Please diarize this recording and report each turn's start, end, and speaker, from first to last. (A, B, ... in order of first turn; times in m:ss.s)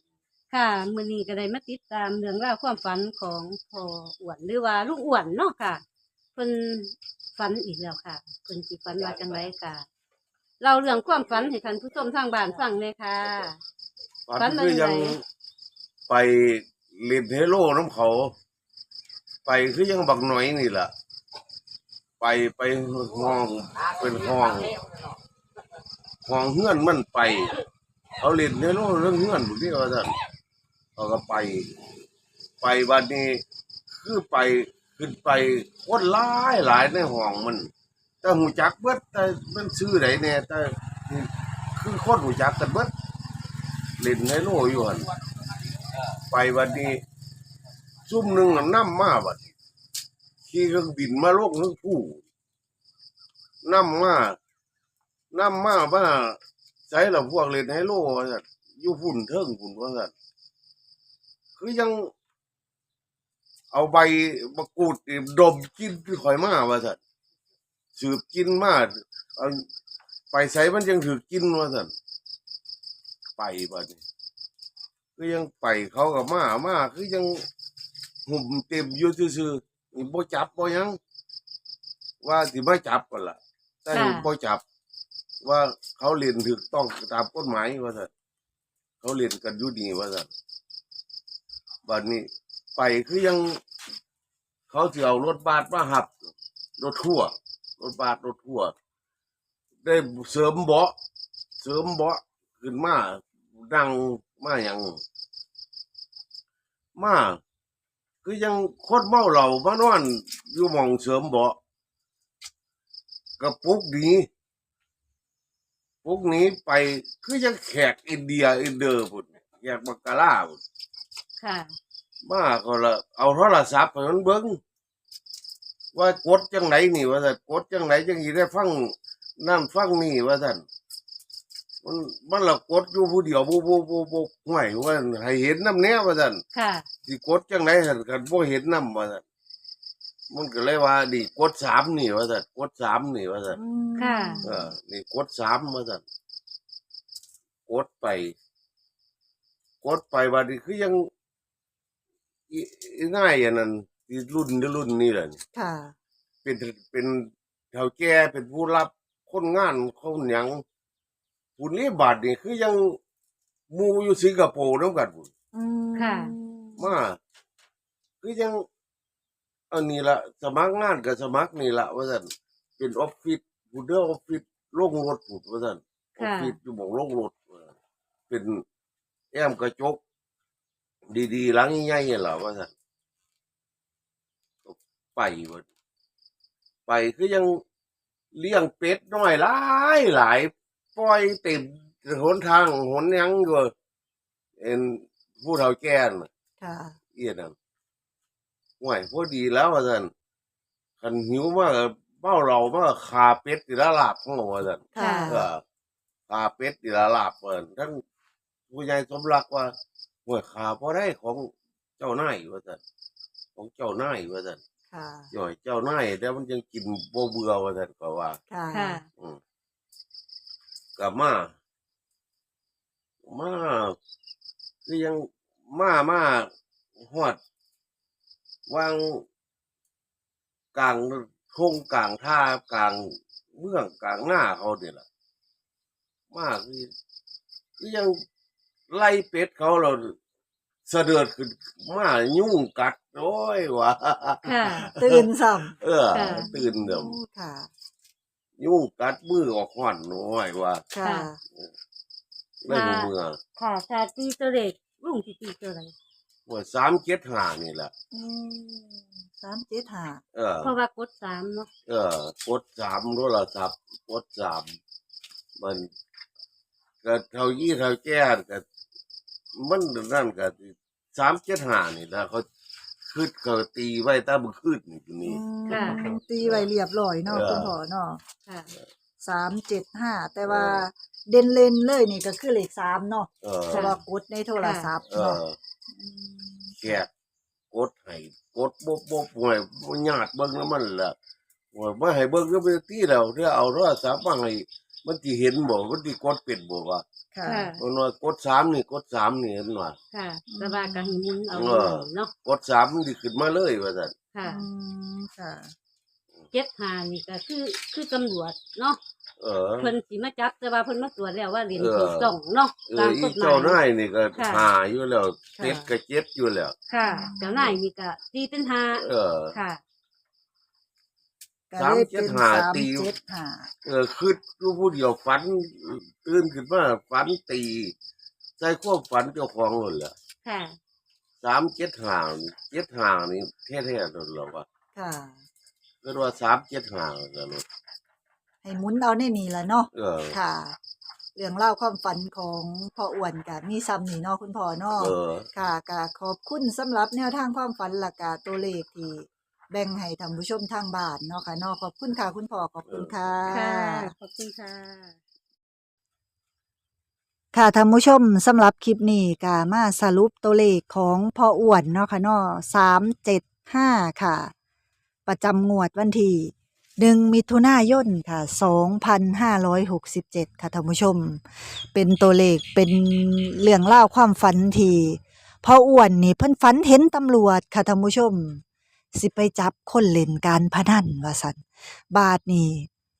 0:00.5-0:05.8 A
0:06.4-0:09.8 A
0:10.6-0:13.6 A
0:14.3-0:15.2 B
0:14.4-0:15.2 A
0:16.1-0:18.3 B
0:19.5-0:20.9 B
0:22.2-0:24.8 B
0:26.2-0:27.6 B
0:28.2-0:30.1 B
0:31.0-0:31.7 B
0:32.6-0:37.7 B
0:38.2-0:42.9 B
0:44.0-0:45.1 B
0:46.3-0:47.0 B
0:48.1-0:49.4 B
0:50.5-0:52.2 B
0:53.6-0:54.4 B
0:55.3-1:00.1 B
1:01.6-1:02.1 B
1:03.7-1:07.0 B
1:08.0-1:09.6 B
1:10.3-1:11.9 B
1:13.4-1:14.0 B
1:15.2-1:17.4 B
1:18.3-1:21.0 B
1:22.2-1:24.6 B
1:23.9-1:24.3 A
1:25.4-1:28.1 B
1:29.0-1:30.3 B
1:31.8-1:33.6 B
1:34.7-1:36.1 B
1:36.8-1:38.7 B
1:39.8-1:41.0 B
1:41.6-1:45.0 B
1:47.0-1:47.4 B
1:48.2-1:51.6 B
1:53.4-1:54.3 B
1:56.0-2:00.6 B
2:01.4-2:01.7 A
2:02.2-2:04.6 B
2:06.0-2:10.6 B
2:11.8-2:16.4 B
2:16.5-2:16.9 A
2:17.1-2:19.2 B
2:20.3-2:23.6 B
2:23.5-2:24.7 C
2:24.0-2:24.4 A
2:24.4-2:26.0 B
2:27.7-2:28.4 B
2:29.8-2:31.0 B
2:32.5-2:35.4 B
2:35.5-2:35.9 C
2:36.4-2:40.6 B
2:41.6-2:43.0 B
2:43.7-2:45.3 B
2:45.5-2:47.0 C
2:46.0-2:46.3 A
2:46.8-2:47.2 B
2:48.2-2:48.6 B
2:49.7-2:57.7 B
2:56.2-2:56.6 A
2:58.3-2:58.6 B
2:59.3-3:00.0 B
3:01.1-3:02.7 B
3:04.6-3:05.6 B
3:06.9-3:07.6 B
3:08.4-3:13.7 B
3:14.6-3:16.3 B
3:16.6-3:17.0 C
3:17.2-3:17.5 B
3:18.8-3:20.1 B
3:21.0-3:25.6 B
3:24.9-3:25.5 C
3:25.0-3:25.4 A
3:26.3-3:28.0 B
3:28.7-3:29.7 B
3:30.3-3:32.8 B
3:33.6-3:34.6 B
3:34.9-3:35.3 C
3:35.3-3:38.4 B
3:38.5-3:39.0 C
3:38.7-3:39.1 A
3:41.0-3:41.5 B
3:43.3-3:44.0 B
3:44.9-3:47.4 B
3:48.7-3:49.3 B
3:50.7-3:55.0 B
3:56.3-3:56.9 B
3:57.8-3:58.2 B
3:58.9-4:00.2 B
4:00.9-4:05.3 B
4:04.4-4:04.9 A
4:04.9-4:07.7 C
4:05.8-4:07.2 B
4:06.1-4:06.5 A
4:08.6-4:10.9 B
4:10.9-4:11.4 C
4:11.0-4:11.3 A
4:12.6-4:13.4 B
4:12.7-4:15.9 A
4:16.5-4:17.9 B
4:18.1-4:20.2 C
4:20.3-4:20.7 B
4:20.6-4:21.7 A
4:21.9-4:24.8 B
4:25.6-4:25.9 B
4:27.0-4:28.6 B
4:29.6-4:32.5 B
4:33.1-4:36.7 B
4:35.2-4:38.2 C
4:35.7-4:36.0 A
4:37.3-4:37.8 B
4:38.5-4:38.7 A
4:39.2-4:47.0 C
4:40.5-4:40.8 B
4:43.4-4:44.0 B
4:44.6-4:44.9 A
4:45.1-4:45.6 B
4:46.8-4:47.1 B
4:47.7-4:51.2 B
4:51.7-4:57.0 B
4:57.3-4:57.7 C
4:57.5-4:57.8 A
4:57.8-5:00.0 B
5:00.1-5:02.3 A
5:00.5-5:01.2 C
5:01.5-5:04.1 B
5:04.3-5:04.6 A
5:04.4-5:05.7 C
5:06.5-5:09.0 A
5:09.4-5:09.9 B
5:09.8-5:13.8 A
5:11.8-5:16.8 B
5:14.4-5:14.7 A
5:15.6-5:15.9 C
5:16.9-5:19.8 A
5:17.0-5:17.7 C
5:19.0-5:19.6 B
5:21.7-5:23.7 C
5:21.8-5:23.1 B
5:23.8-5:27.9 B
5:28.6-5:30.1 B
5:30.4-5:30.8 A
5:31.4-5:34.6 B
5:34.9-5:35.4 C
5:36.0-5:37.6 B
5:38.6-5:40.8 C
5:39.9-5:40.4 B
5:41.4-5:54.1 C
5:45.0-5:45.5 B
5:52.9-5:53.2 B
5:53.5-5:55.2 A
5:57.5-6:04.5 C
6:05.3-6:22.9 C